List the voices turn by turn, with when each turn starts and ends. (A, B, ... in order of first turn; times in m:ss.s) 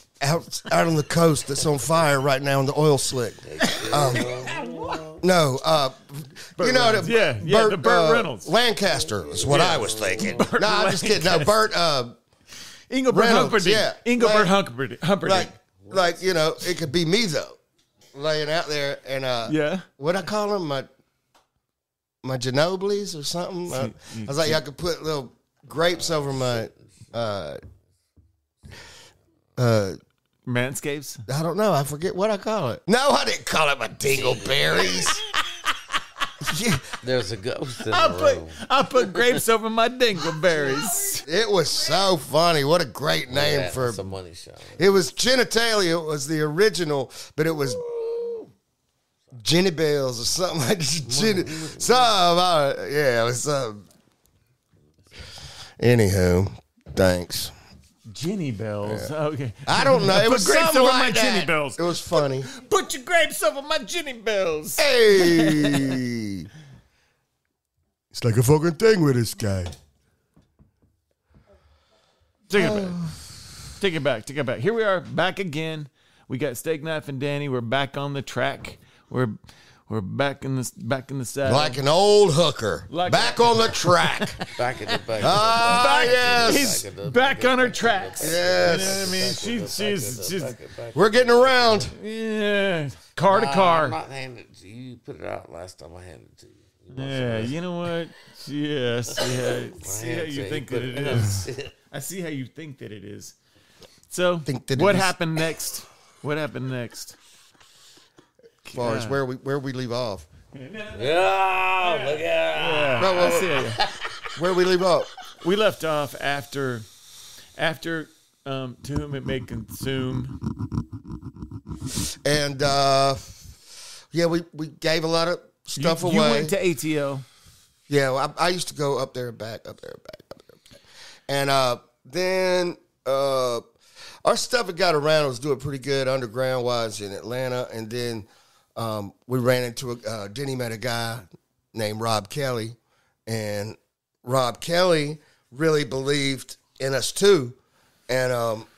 0:00.2-0:04.3 A
0:03.4-0:05.2 B
0:03.8-0:05.0 C
0:05.2-0:12.2 A
0:06.6-0:08.5 C
0:08.9-0:10.5 B
0:09.5-0:11.6 C
0:12.9-0:15.5 C
0:13.1-0:14.6 A
0:15.2-0:17.6 A
0:15.8-0:16.5 B
0:18.1-0:20.9 A
0:19.4-0:19.9 C
0:22.2-0:27.6 A
0:23.7-0:24.6 C
0:25.8-0:27.1 B
0:29.6-0:30.0 A
0:30.4-0:31.2 C
0:31.3-0:35.2 A
0:34.1-0:35.1 B
0:36.4-0:36.9 A
0:37.0-0:39.2 B
0:37.9-0:41.2 C
0:41.2-0:44.0 A
0:43.3-0:44.9 B
0:44.8-0:47.8 A
0:47.6-0:48.5 B
0:49.4-0:53.8 A
0:51.0-0:52.1 B
0:55.8-0:57.5 A
0:58.1-1:06.0 C
0:58.8-0:59.1 A
0:59.6-1:02.5 A
1:04.8-1:06.5 A
1:08.1-1:09.7 A
1:12.5-1:13.0 C
1:12.5-1:13.2 A
1:13.8-1:19.4 C
1:19.9-1:21.8 C
1:21.4-1:24.4 A
1:22.9-1:30.5 C
1:24.5-1:31.9 B
1:25.2-1:26.8 A
1:28.2-1:29.3 A
1:30.9-1:31.9 A
1:31.9-1:34.0 C
1:33.3-1:37.6 B
1:36.9-1:43.3 C
1:39.2-1:41.7 B
1:44.1-1:47.2 C
1:44.4-1:45.1 A
1:48.6-1:49.2 C
1:48.7-1:50.3 A
1:50.5-1:53.8 C
1:50.9-1:54.3 B
1:53.0-1:53.5 A
1:54.4-1:55.1 A
1:55.4-1:56.9 C
1:57.6-2:00.4 C
2:02.2-2:03.6 A
2:04.1-2:06.5 A
2:05.8-2:07.2 C
2:07.9-2:10.6 A
2:11.3-2:13.6 A
2:14.2-2:28.7 A